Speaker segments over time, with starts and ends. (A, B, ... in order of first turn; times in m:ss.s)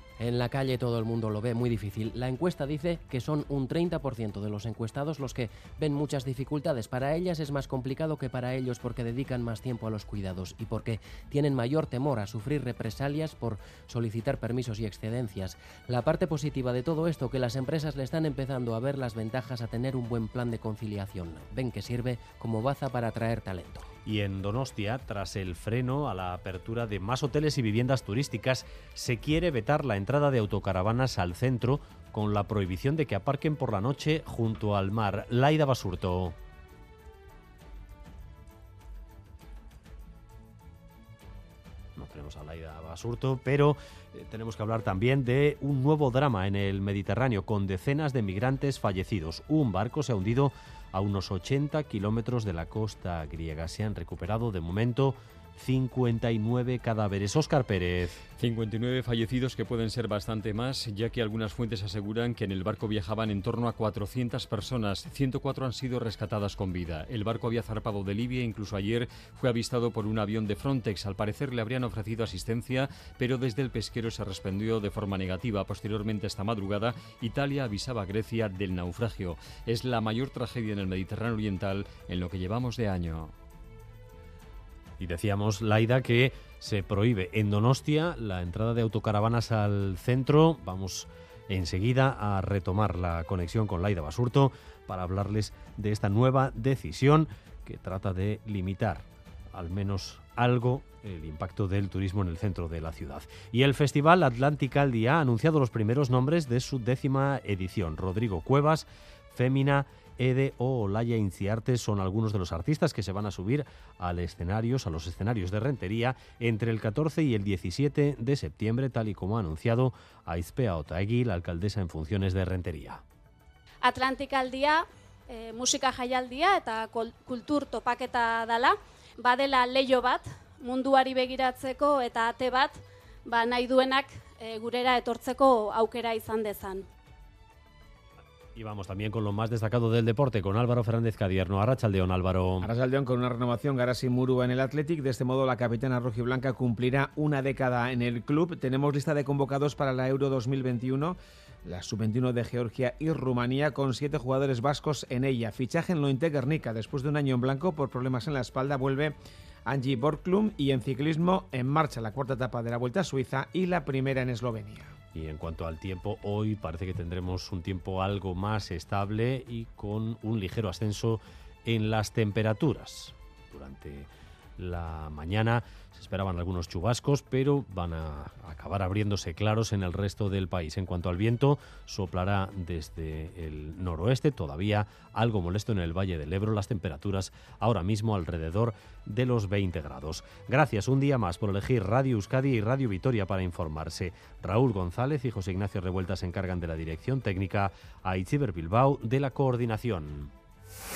0:00.2-0:23.9 A
0:24.0-0:36.4 B
0:42.0-0:58.2 B
0:58.4-1:23.3 C
1:25.0-2:03.0 B
2:03.8-2:16.9 D
2:18.6-2:22.7 B
2:22.6-2:39.2 E
2:39.7-2:44.9 E
2:45.1-3:20.3 B